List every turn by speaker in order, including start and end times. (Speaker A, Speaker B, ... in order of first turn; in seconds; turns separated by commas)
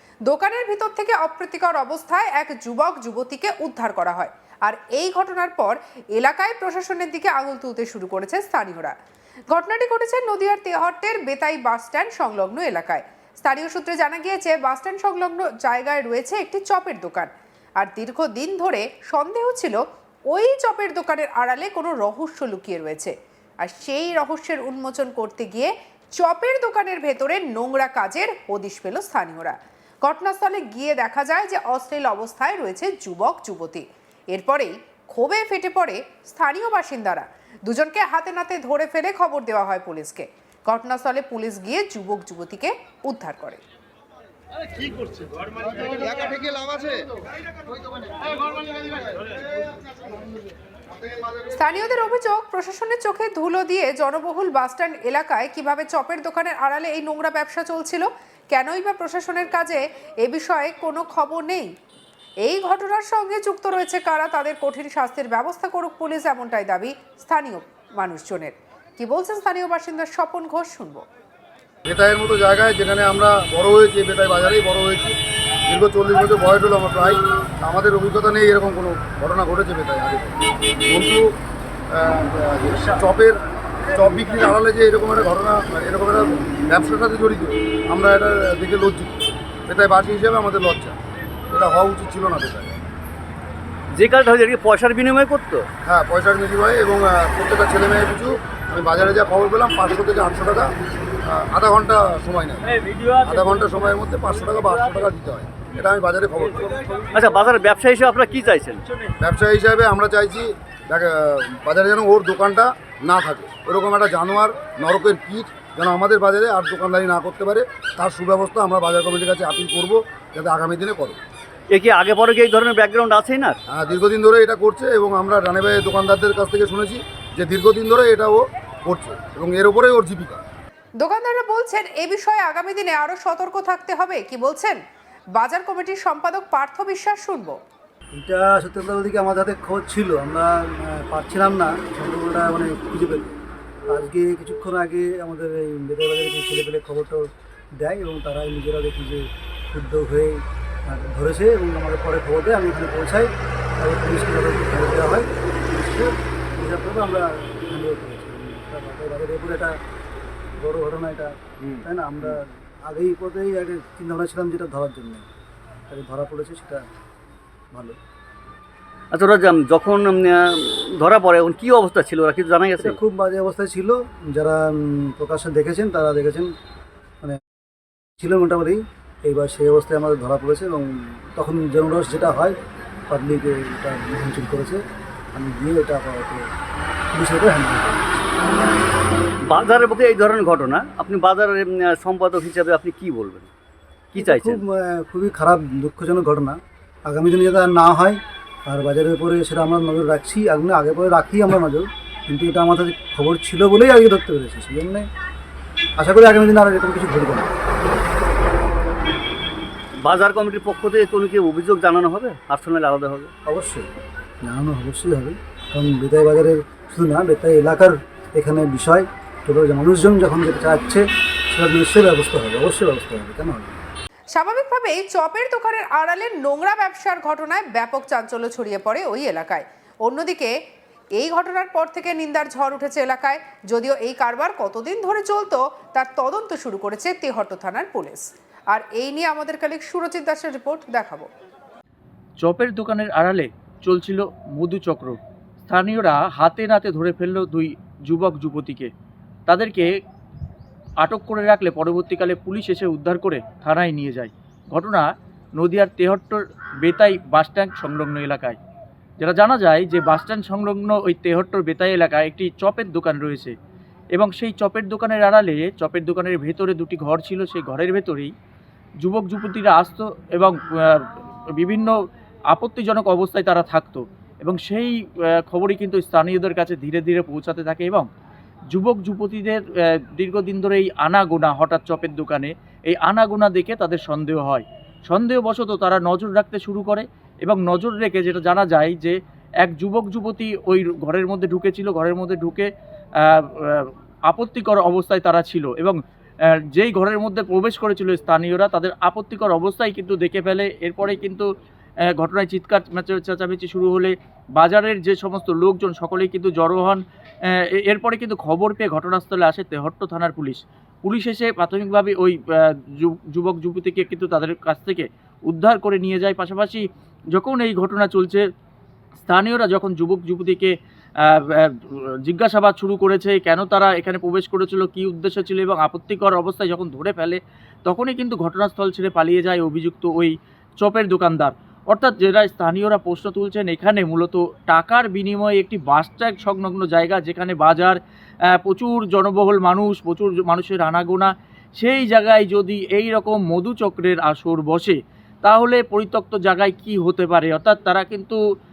Speaker A: 0.2-8.9, Speaker A: 9.5-19.8, Speaker A: 20.3-43.6, Speaker B: 46.1-47.0, Speaker A: 51.5-61.7, Speaker A: 62.4-71.0, Speaker B: 71.9-75.1, Speaker B: 75.7-81.3, Speaker B: 81.9-91.0, Speaker B: 91.5-92.8, Speaker C: 93.9-95.7, Speaker B: 95.8-100.7, Speaker B: 101.2-102.7, Speaker D: 102.7-103.8, Speaker B: 103.2-106.7, Speaker C: 107.1-108.8, Speaker B: 109.2-121.2, Speaker C: 121.7-123.6, Speaker B: 123.7-130.4, Speaker A: 131.0-134.8, Speaker A: 135.3-137.6, Speaker E: 138.1-143.4, Speaker E: 143.9-159.8, Speaker E: 160.6-165.2, Speaker C: 161.6-162.4, Speaker E: 165.9-166.8, Speaker E: 167.7-168.0, Speaker C: 169.1-173.0, Speaker E: 172.8-176.5, Speaker E: 178.2-182.6, Speaker E: 183.1-184.8, Speaker E: 185.3-186.5, Speaker E: 187.1-188.3, Speaker C: 189.4-193.5, Speaker E: 194.1-205.1, Speaker C: 194.1-194.6, Speaker E: 206.0-207.5, Speaker C: 210.0-213.3, Speaker E: 213.4-213.9, Speaker E: 214.4-223.8, Speaker A: 224.3-230.5, Speaker A: 231.2-241.3, Speaker D: 242.4-248.9, Speaker D: 249.5-249.9, Speaker D: 251.0-258.6, Speaker D: 259.2-263.5, Speaker D: 264.1-268.3, Speaker D: 269.0-271.9, Speaker D: 272.5-278.1, Speaker D: 278.7-292.7, Speaker D: 293.2-295.9, Speaker D: 296.7-301.4, Speaker D: 302.1-307.0, Speaker D: 307.8-318.4, Speaker D: 319.2-338.0, Speaker D: 338.6-348.4